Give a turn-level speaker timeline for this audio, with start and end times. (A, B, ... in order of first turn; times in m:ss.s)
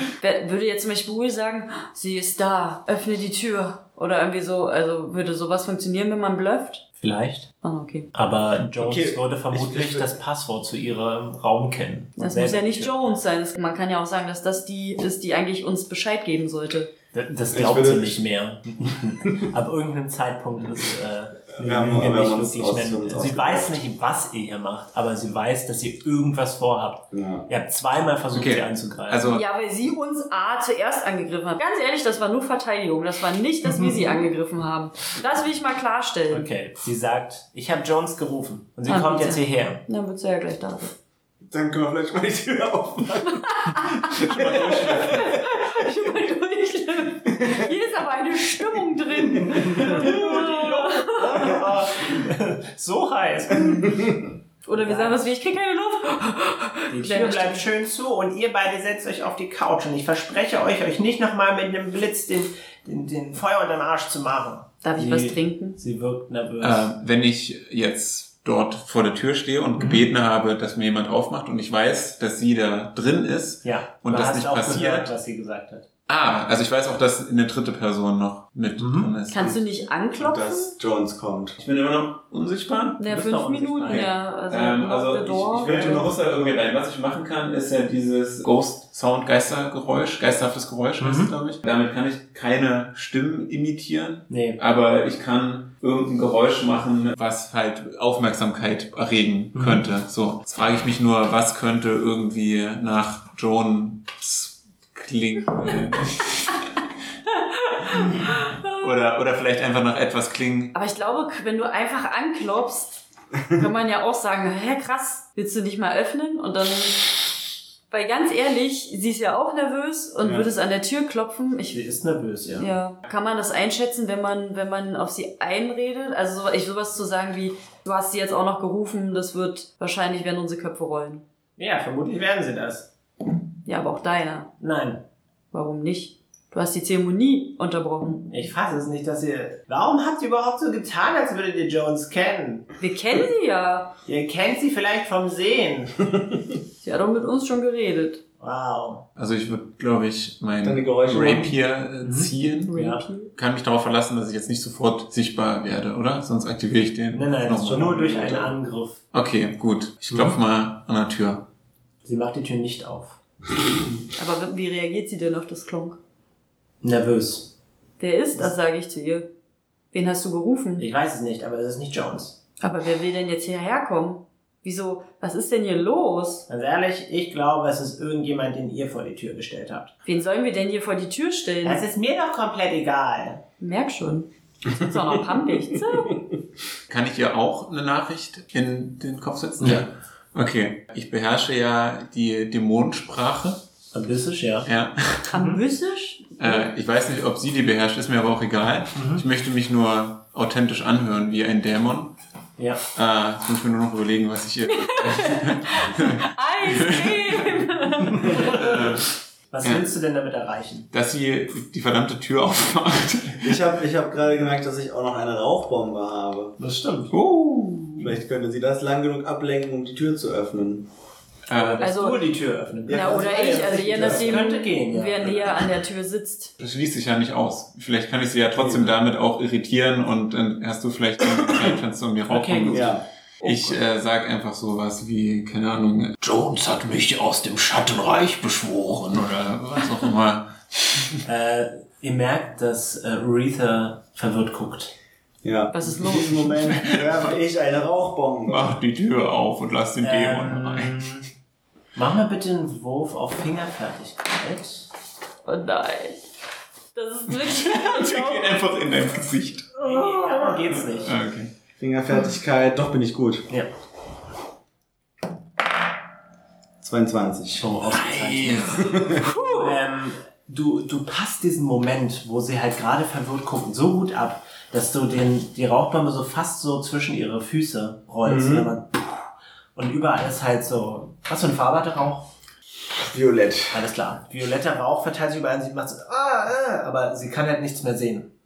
0:00.2-0:06.8 A
0:07.0-0:07.5 B
0:07.6-0:08.1 A
0:08.1-0:12.9 B
0:08.8-0:10.1 C
0:12.2-0:16.9 A
0:17.1-0:29.4 B
0:17.5-0:18.2 C
0:21.5-0:23.8 C
0:27.1-0:27.4 C
0:28.3-0:29.4 D
0:29.3-0:36.5 A
0:36.3-0:39.8 B
0:38.8-0:40.9 A
0:41.5-0:45.4 C
0:43.3-0:51.6 A
0:44.1-0:45.4 D
0:47.4-0:47.7 C
0:49.5-0:49.8 C
0:49.5-0:55.2 B
0:53.8-0:54.1 C
0:54.6-0:57.6 A
0:56.9-1:06.9 B
1:04.8-1:05.8 A
1:06.6-1:15.1 D
1:09.8-1:10.0 B
1:13.6-1:15.9 B
1:16.1-1:19.6 D
1:18.8-1:19.1 B
1:19.3-1:20.7 A
1:20.2-1:21.6 C
1:21.6-1:23.0 D
1:23.0-1:26.1 A
1:23.0-1:24.1 B
1:23.9-1:46.6 D
1:25.6-1:26.5 C
1:31.0-1:31.3 B
1:34.3-1:34.6 B
1:39.5-1:39.8 B
1:47.4-1:48.9 A
1:48.7-1:50.7 D
1:50.7-1:57.3 A
1:57.9-2:01.8 A
2:00.2-2:00.5 C
2:01.7-2:02.7 B
2:02.6-2:11.2 A
2:11.6-2:12.9 B
2:13.6-2:14.5 A
2:14.6-2:15.0 B
2:15.5-2:18.3 A
2:18.3-2:22.7 B
2:22.8-2:23.9 A
2:24.0-2:26.2 B
2:26.8-2:28.2 A
2:28.4-2:29.1 B
2:29.2-2:32.7 D
2:30.6-2:31.5 C
2:32.0-2:33.0 B
2:32.7-2:33.3 A
2:33.3-2:38.0 D
2:37.1-2:39.0 B
2:37.6-2:38.5 C
2:39.1-2:41.4 D
2:40.1-2:40.4 B
2:42.0-2:43.2 B
2:44.2-2:46.0 A
2:46.8-2:47.5 B
2:48.0-2:49.3 A
2:49.9-2:50.8 A
2:50.8-2:52.4 B
2:52.6-2:56.5 A
2:56.5-2:59.9 B
3:00.0-3:01.8 A
3:01.6-3:03.4 B
3:03.6-3:06.2 A
3:06.9-3:13.6 D
3:09.6-3:09.8 B
3:13.9-3:14.7 B
3:14.6-3:15.3 D
3:15.3-3:16.6 A
3:15.3-3:15.6 B
3:16.4-3:22.2 D
3:18.9-3:19.2 B
3:22.6-3:22.8 B
3:22.9-3:27.6 D
3:24.7-3:28.6 A
3:28.1-3:30.9 B
3:28.2-3:29.1 D
3:29.6-3:29.9 D
3:30.9-3:33.6 D
3:33.4-3:36.6 C
3:36.6-3:37.1 B
3:37.1-3:38.1 D
3:38.0-3:40.9 C
3:41.5-3:41.9 D
3:41.5-3:45.5 B
3:41.8-3:42.2 A
3:42.8-3:44.4 C
3:42.9-3:46.5 A
3:46.6-4:01.2 D
3:48.6-3:49.0 C
3:52.3-3:52.9 B
3:52.7-3:53.0 C
3:53.4-3:53.7 B
4:01.2-4:04.9 B
4:05.4-4:08.8 C
4:05.7-4:06.5 A
4:06.6-4:07.2 D
4:08.5-4:11.1 D
4:10.0-4:11.3 B
4:11.9-4:14.9 B
4:15.4-4:16.2 A
4:16.9-4:18.6 A
4:17.3-4:19.8 D
4:19.8-4:21.2 B
4:19.8-4:20.6 A
4:20.9-4:21.5 D
4:21.8-4:23.5 C
4:26.8-4:27.8 C
4:27.6-4:42.3 B
4:28.0-4:28.8 D
4:28.6-4:29.3 C
4:29.2-4:29.7 A
4:38.2-4:38.7 C
4:43.0-4:43.8 C
4:43.7-4:48.3 B